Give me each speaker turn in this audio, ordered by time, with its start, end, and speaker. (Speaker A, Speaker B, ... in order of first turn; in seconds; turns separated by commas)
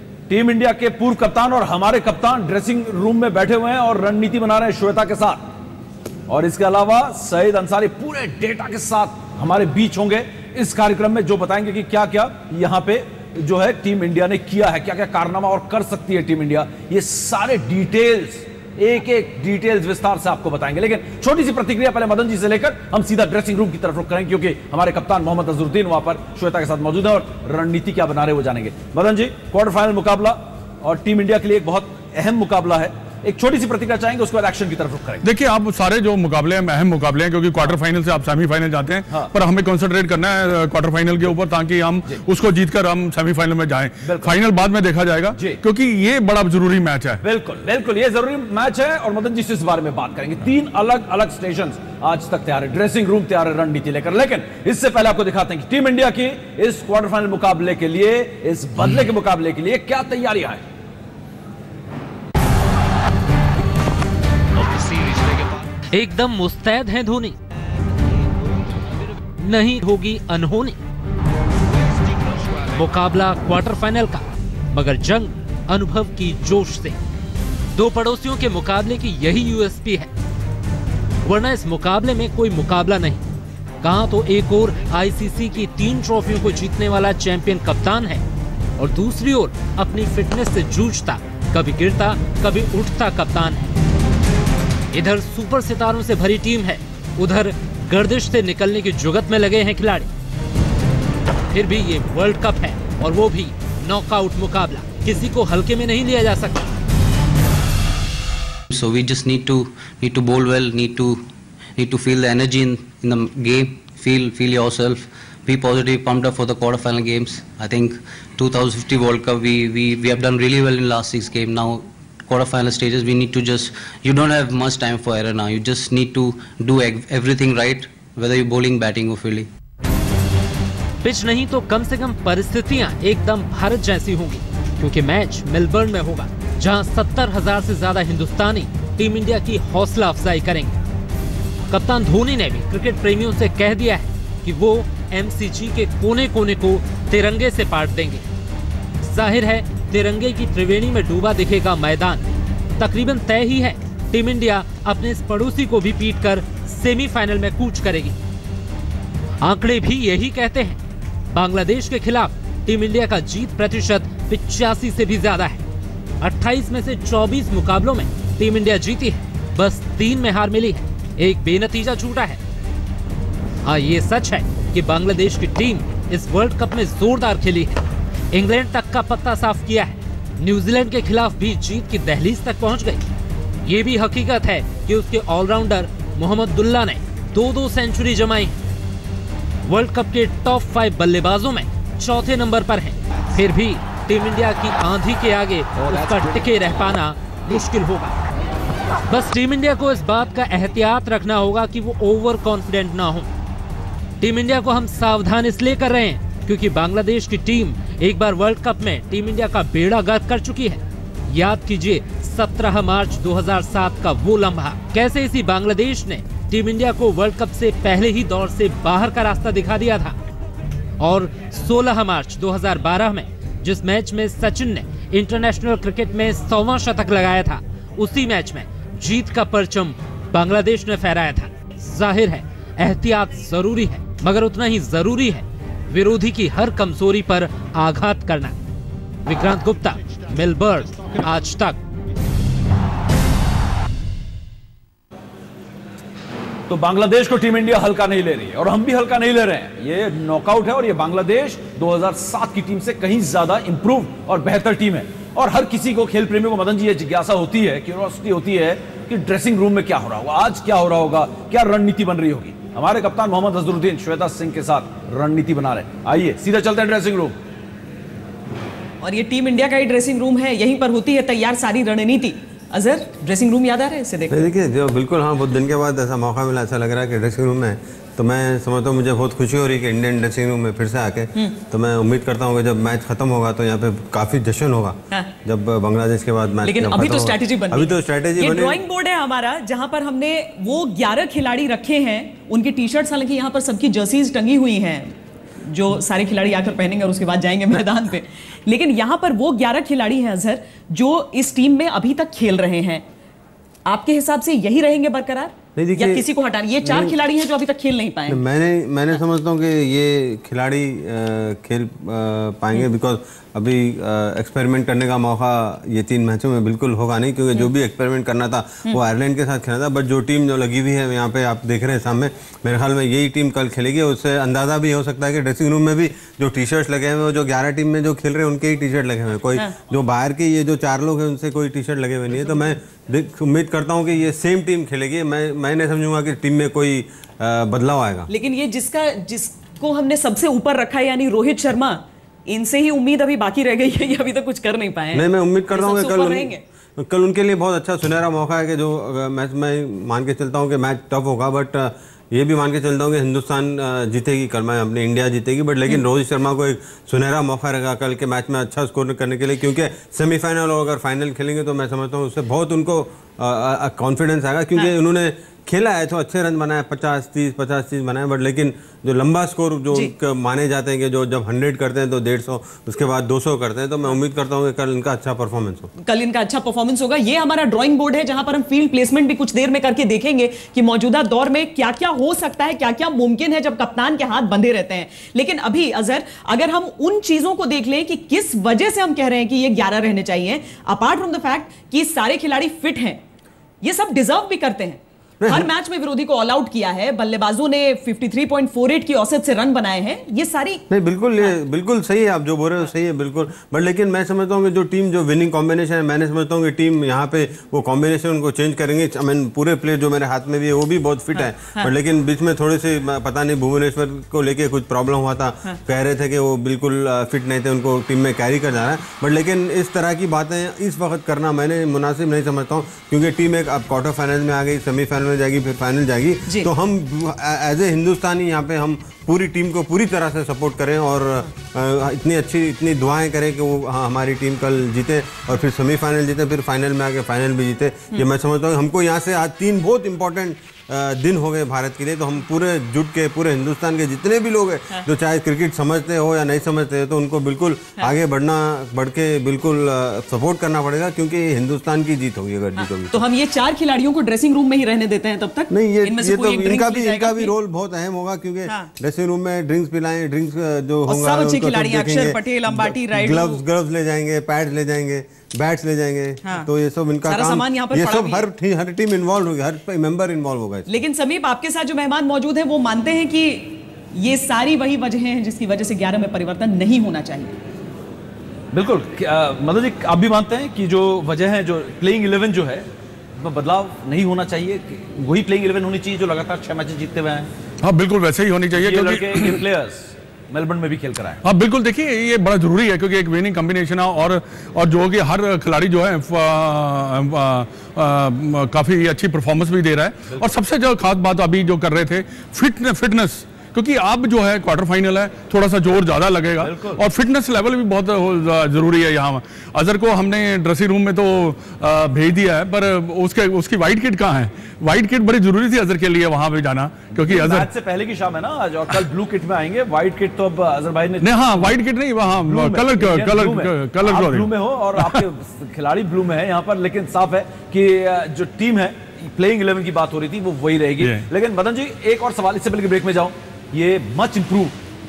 Speaker A: 0.3-5.5, Speaker A: 6.3-35.2, Speaker B: 35.2-47.2, Speaker A: 44.0-44.4, Speaker A: 47.2-60.6, Speaker C: 64.6-65.0, Speaker C: 65.9-67.4, Speaker C: 69.4-70.8, Speaker C: 72.6-77.0, Speaker C: 77.7-80.1, Speaker C: 81.2-83.2, Speaker C: 83.8-88.2, Speaker C: 88.8-93.8, Speaker C: 94.9-100.1, Speaker C: 101.5-106.7, Speaker D: 108.7-111.2, Speaker D: 111.8-129.5, Speaker C: 131.0-140.8, Speaker C: 141.7-148.2, Speaker C: 149.0-158.2, Speaker C: 159.4-160.8, Speaker C: 161.3-165.6, Speaker C: 166.2-172.4, Speaker C: 173.7-183.0, Speaker C: 183.6-188.6, Speaker C: 189.7-198.2, Speaker A: 195.8-196.5, Speaker C: 199.1-203.3, Speaker C: 204.2-220.2, Speaker C: 221.0-238.5, Speaker C: 239.3-241.8, Speaker A: 246.7-267.4, Speaker E: 269.0-274.5, Speaker F: 274.3-288.8, Speaker E: 286.6-303.1, Speaker E: 303.9-308.4, Speaker F: 305.8-306.3, Speaker F: 306.8-307.2, Speaker F: 308.3-338.3, Speaker E: 338.3-346.6, Speaker F: 345.1-375.9, Speaker E: 376.0-393.2, Speaker E: 393.8-400.9, Speaker F: 395.4-395.7, Speaker F: 400.9-453.2, Speaker E: 411.4-411.9, Speaker E: 452.8-457.5, Speaker F: 455.7-470.9, Speaker E: 461.1-463.6, Speaker E: 467.3-468.4, Speaker E: 470.9-477.6, Speaker A: 478.7-482.9, Speaker A: 483.4-487.5, Speaker B: 487.8-489.6, Speaker A: 488.8-491.4, Speaker B: 491.4-517.7, Speaker A: 506.6-507.0, Speaker A: 517.2-521.8, Speaker B: 521.2-525.2, Speaker A: 522.4-534.7, Speaker B: 531.0-531.2